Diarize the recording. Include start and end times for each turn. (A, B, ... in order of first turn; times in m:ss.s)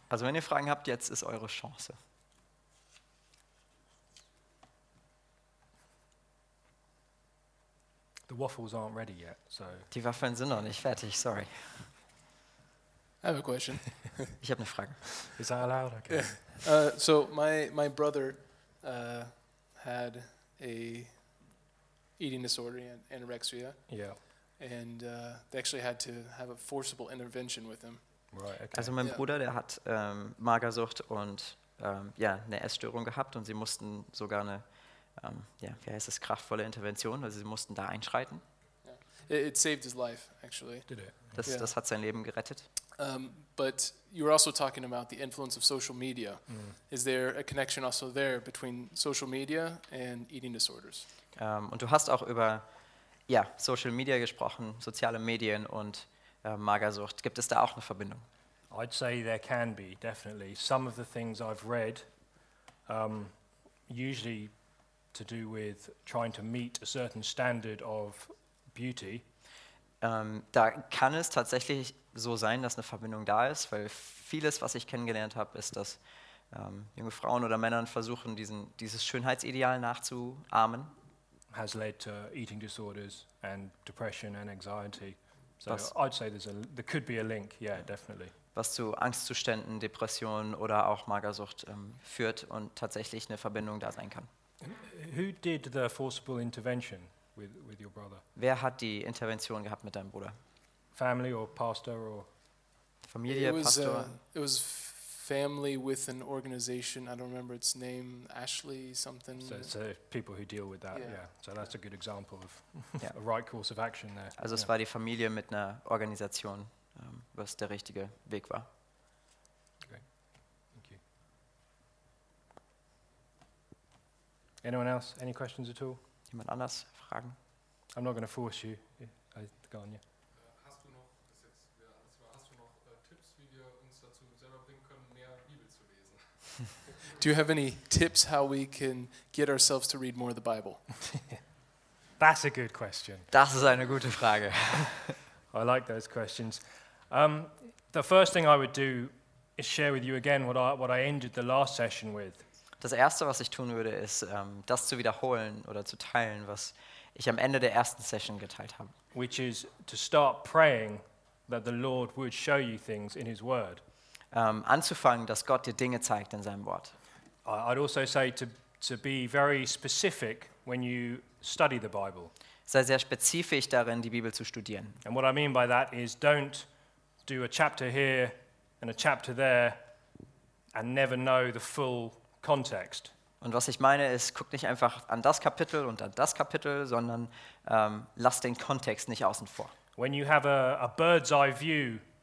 0:00.1-0:02.0 A
0:08.3-0:09.9 B
0:09.9-0:11.9 A
0:13.2-0:14.3 C
0:14.4-0:15.2 A
0:15.3-0:16.5 B
0:16.1-0:21.5 C
0:22.2-0:28.4 C
0:23.9-0:24.2 B
0:28.3-0:28.9 B
0:28.7-0:38.4 A
0:38.8-0:41.7 C
0:40.9-0:41.4 B
0:41.3-0:42.6 A
0:43.0-0:51.0 C
0:46.5-0:46.7 B
0:51.3-0:52.6 A
0:53.3-0:58.2 A
0:58.7-1:02.1 B
1:02.9-1:03.3 B
1:03.9-1:04.5 B
1:05.1-1:09.2 B
1:10.0-1:16.0 A
1:16.5-1:20.9 A
1:21.5-1:28.3 B
1:25.7-1:25.9 A
1:28.5-1:34.3 A
1:34.6-1:38.2 B
1:38.3-1:40.4 A
1:40.9-1:42.3 B
1:43.1-1:44.2 A
1:43.3-1:49.7 C
1:49.4-1:54.7 B
1:50.9-1:51.2 C
1:54.4-1:58.7 A
2:00.7-2:01.0 B
2:04.6-2:06.0 B
2:06.3-2:07.4 A
2:07.9-2:10.0 B
2:10.3-2:17.1 D
2:17.2-2:20.9 C
2:22.2-2:23.3 B
2:23.3-2:25.2 A
2:25.5-2:32.4 B
2:32.8-2:38.9 A
2:39.1-2:43.8 B
2:44.3-2:46.9 A
2:47.4-2:52.3 B
2:52.7-2:55.0 A
2:55.0-2:56.7 B
2:57.2-2:59.8 B
3:00.7-3:03.1 B
3:03.4-3:09.7 A
3:10.0-3:12.0 B